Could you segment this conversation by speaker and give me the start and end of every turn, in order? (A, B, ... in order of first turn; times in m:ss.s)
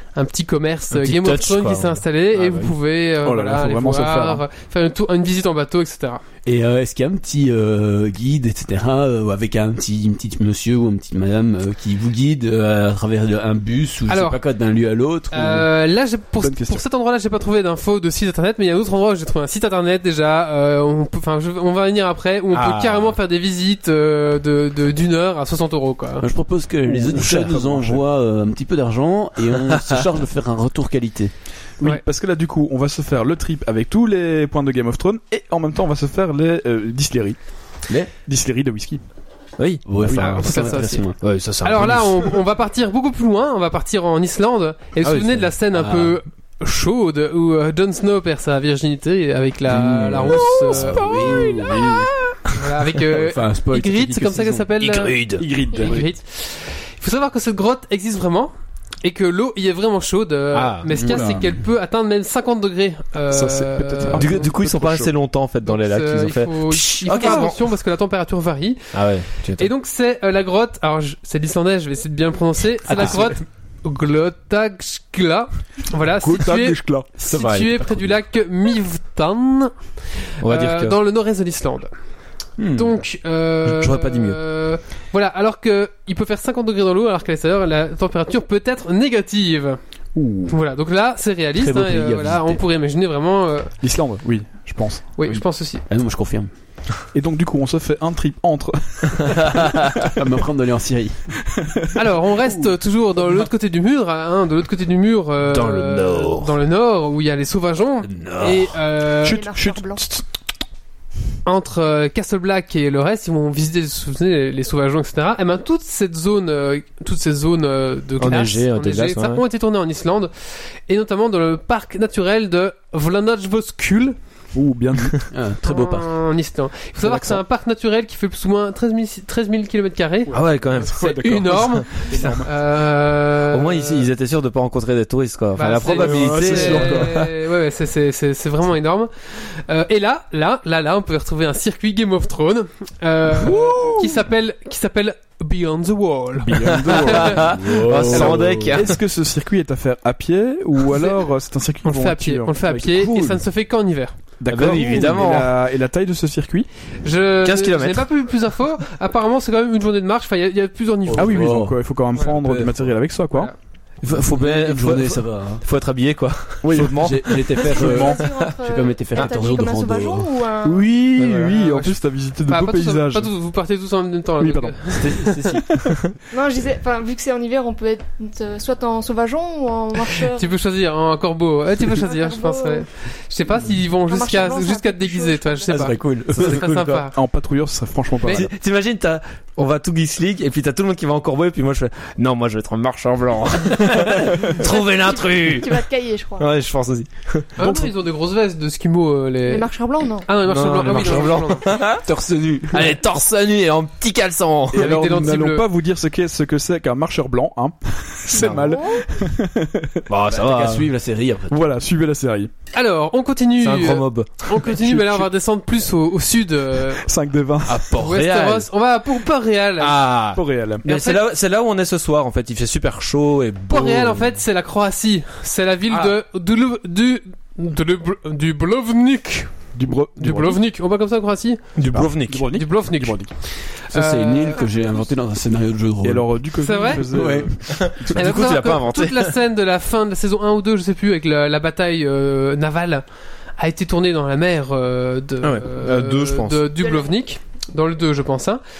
0:00.1-0:06.2 A
0:00.9-0:02.8 B
0:03.2-0:04.4 C
0:06.4-0:15.7 D
0:14.1-0:14.4 A
0:15.3-0:26.3 A
0:16.4-0:16.8 C
0:22.5-0:23.2 B
0:26.2-0:31.3 D
0:26.9-0:28.0 C
0:29.8-0:30.0 B
0:31.8-0:37.5 C
0:38.2-0:39.0 C
0:39.6-0:40.5 B
0:39.9-0:41.2 D
0:40.1-0:51.1 A
0:41.2-0:42.3 B
0:45.0-0:45.5 B
0:45.7-0:46.2 D
0:49.7-0:52.1 D
0:51.0-0:52.0 C
0:52.5-0:58.5 A
0:53.1-0:54.6 D
0:54.8-0:55.5 B
0:55.3-0:56.1 C
0:59.0-1:04.4 A
1:00.5-1:01.2 B
1:00.9-1:01.5 C
1:03.3-1:05.1 C
1:04.1-1:07.6 B
1:05.6-1:09.0 A
1:07.1-1:07.5 C
1:08.9-1:09.7 B
1:09.6-1:19.7 A
1:12.9-1:13.3 D
1:16.2-1:17.1 C
1:17.2-1:18.1 B
1:20.4-1:21.0 B
1:20.4-1:21.9 A
1:22.6-1:22.9 B
1:22.7-1:29.8 A
1:23.6-1:24.4 B
1:30.2-1:30.6 C
1:30.5-1:33.7 A
1:31.6-1:32.6 D
1:33.8-1:35.2 C
1:35.2-1:35.8 A
1:35.9-1:36.5 D
1:37.1-1:40.1 C
1:40.0-1:41.2 D
1:41.7-1:42.0 C
1:41.9-1:49.4 A
1:45.4-1:46.6 B
1:48.1-1:48.6 D
1:49.2-1:50.3 C
1:49.3-1:50.0 E
1:51.4-2:00.3 A
1:58.2-1:59.4 B
2:00.9-2:04.2 A
2:04.5-2:05.2 C
2:05.3-2:06.1 D
2:05.6-2:14.1 A
2:07.0-2:07.3 C
2:10.3-2:12.5 C
2:10.3-2:12.5 B
2:13.5-2:17.3 B
2:15.6-2:27.4 A
2:16.0-2:17.2 C
2:26.4-2:33.4 C
2:26.7-2:29.0 B
2:27.4-2:28.8 D
2:31.8-2:35.2 A
2:34.4-2:36.7 C
2:34.5-2:35.6 B
2:37.0-2:41.5 A
2:37.4-2:38.1 B
2:41.1-2:42.9 D
2:41.2-2:43.5 C
2:44.0-2:48.4 B
2:44.1-2:45.6 D
2:46.6-2:48.2 C
2:46.9-2:50.3 D
2:47.7-2:50.9 E
2:50.6-2:53.3 C
2:51.2-2:51.6 B
2:51.3-2:51.9 A
2:52.5-2:55.6 A
2:54.4-2:55.9 C
2:55.0-2:56.1 B
2:56.3-3:00.5 E
3:00.2-3:07.2 A
3:01.9-3:02.9 E
3:04.1-3:05.8 E
3:05.7-3:07.0 D
3:07.1-3:08.5 C
3:08.3-3:15.8 B
3:14.6-3:16.5 E
3:16.4-3:17.5 B
3:17.6-3:19.7 A
3:17.6-3:17.9 C
3:19.5-3:20.4 E
3:20.2-3:21.7 A
3:20.4-3:22.0 B
3:22.0-3:22.9 D
3:22.7-3:25.0 B
3:24.7-3:30.1 C
3:24.7-3:25.6 A
3:28.3-3:28.8 B
3:28.5-3:29.1 E
3:30.1-3:30.9 B
3:30.3-3:31.7 D
3:31.5-3:32.5 C
3:32.7-3:37.1 A
3:33.6-3:34.6 B
3:34.6-3:35.3 C
3:37.0-3:37.9 C
3:37.6-3:38.7 B
3:37.9-3:40.0 A
3:39.8-3:44.4 B
3:40.3-3:40.8 C
3:40.8-3:41.2 A
3:43.7-3:51.6 A
3:49.7-3:50.6 C
3:51.7-3:52.5 B
3:51.9-3:53.3 C
3:52.5-3:54.7 A
3:53.9-3:56.4 D
3:56.0-3:58.3 C
3:56.6-3:57.0 A
3:57.0-3:57.5 D
3:57.7-3:59.3 B
3:58.1-4:03.0 A
4:03.6-4:08.6 A
4:05.4-4:06.7 B
4:06.8-4:07.1 E